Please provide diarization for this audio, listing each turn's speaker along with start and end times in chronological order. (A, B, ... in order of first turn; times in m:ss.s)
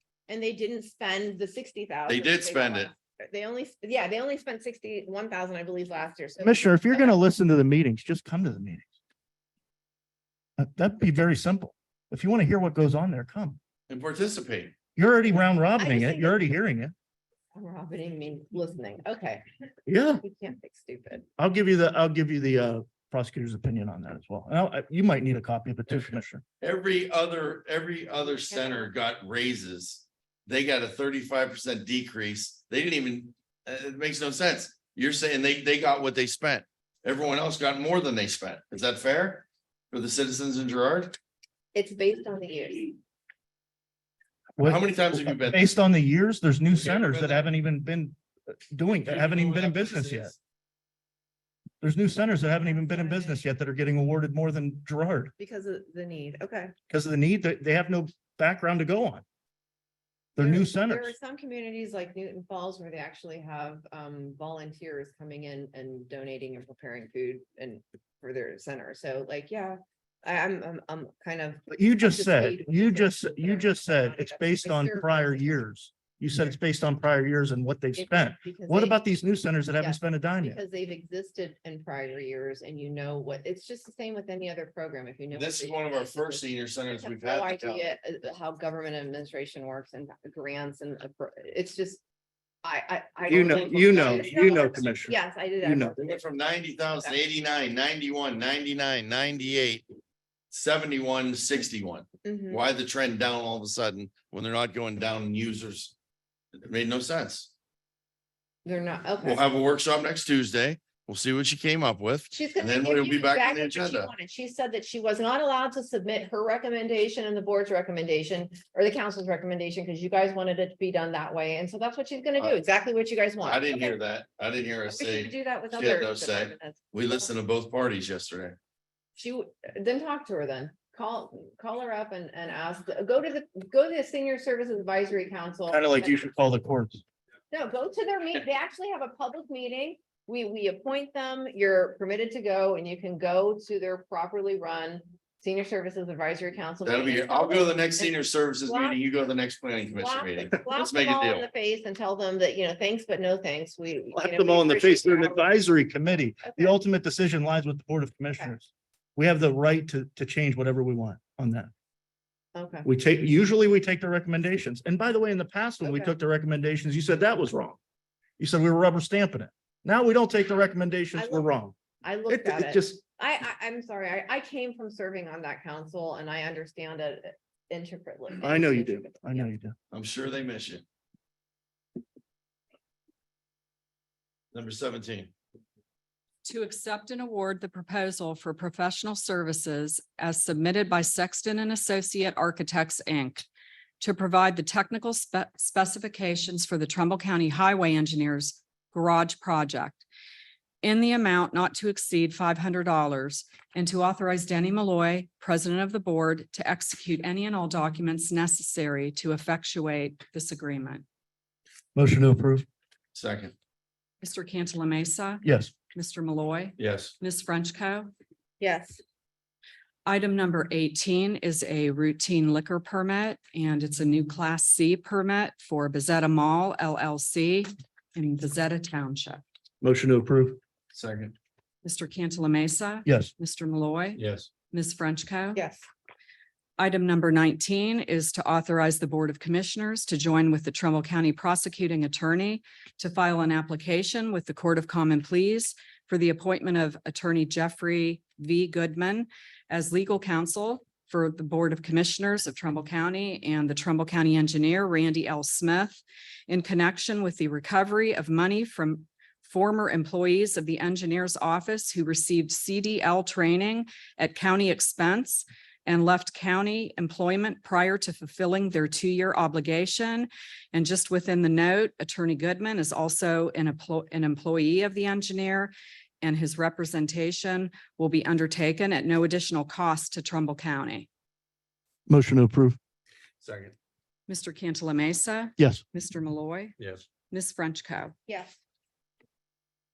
0:00.3-0:07.2 A
0:02.1-0:02.9 B
0:06.4-0:08.9 C
0:10.6-0:13.6 C
0:13.9-0:14.7 B
0:15.0-0:16.9 C
0:15.8-0:16.4 A
0:17.5-0:19.4 A
0:19.9-0:20.2 C
0:20.2-0:21.3 A
0:21.4-0:26.4 C
0:26.6-0:41.2 B
0:28.2-0:28.9 A
0:41.7-0:43.0 A
0:44.6-0:50.3 C
0:44.6-0:45.7 B
0:46.7-0:47.5 B
0:49.0-0:50.4 B
0:51.8-0:55.3 C
0:52.6-0:53.4 A
0:55.4-0:56.7 A
0:56.9-0:59.2 C
1:00.4-1:01.1 C
1:00.4-1:15.6 A
1:11.7-1:20.6 C
1:18.0-1:19.0 A
1:19.8-1:32.0 A
1:25.3-1:27.9 B
1:32.6-1:36.2 A
1:33.3-1:36.0 C
1:33.7-1:34.2 B
1:36.0-1:39.9 B
1:40.5-1:45.9 B
1:42.2-1:42.6 A
1:46.6-1:47.5 B
1:48.6-1:49.4 A
1:49.2-1:54.1 B
1:52.3-2:04.0 A
2:03.4-2:08.6 B
2:04.9-2:07.3 A
2:09.2-2:16.3 A
2:15.7-2:17.0 C
2:17.5-2:29.0 A
2:26.8-2:31.5 B
2:29.9-2:35.4 A
2:34.1-2:41.7 C
2:36.4-2:36.8 A
2:42.6-2:42.9 A
2:42.8-2:47.8 C
2:45.8-2:46.2 A
2:48.4-2:51.8 C
2:51.2-2:59.5 A
2:52.3-2:53.0 C
2:58.4-2:59.7 C
2:59.9-3:00.8 B
3:04.5-3:05.3 B
3:06.4-3:13.4 D
3:14.0-3:20.0 D
3:20.8-3:31.0 D
3:31.9-3:32.7 C
3:33.2-3:33.5 B
3:34.2-3:38.1 D
3:35.4-3:35.7 C
3:36.8-3:37.1 B
3:38.6-3:39.0 A
3:40.1-3:49.4 D
3:49.8-3:50.6 C
3:50.9-3:51.3 B
3:51.8-3:55.6 D
3:53.0-3:53.3 C
3:54.2-3:54.5 B
3:55.6-3:55.8 A
3:56.8-4:41.1 D
4:42.1-4:42.8 C
4:43.4-4:43.7 B
4:44.3-4:46.8 D
4:45.6-4:45.8 C
4:46.8-4:47.0 B
4:47.3-4:48.1 D
4:48.3-4:48.6 A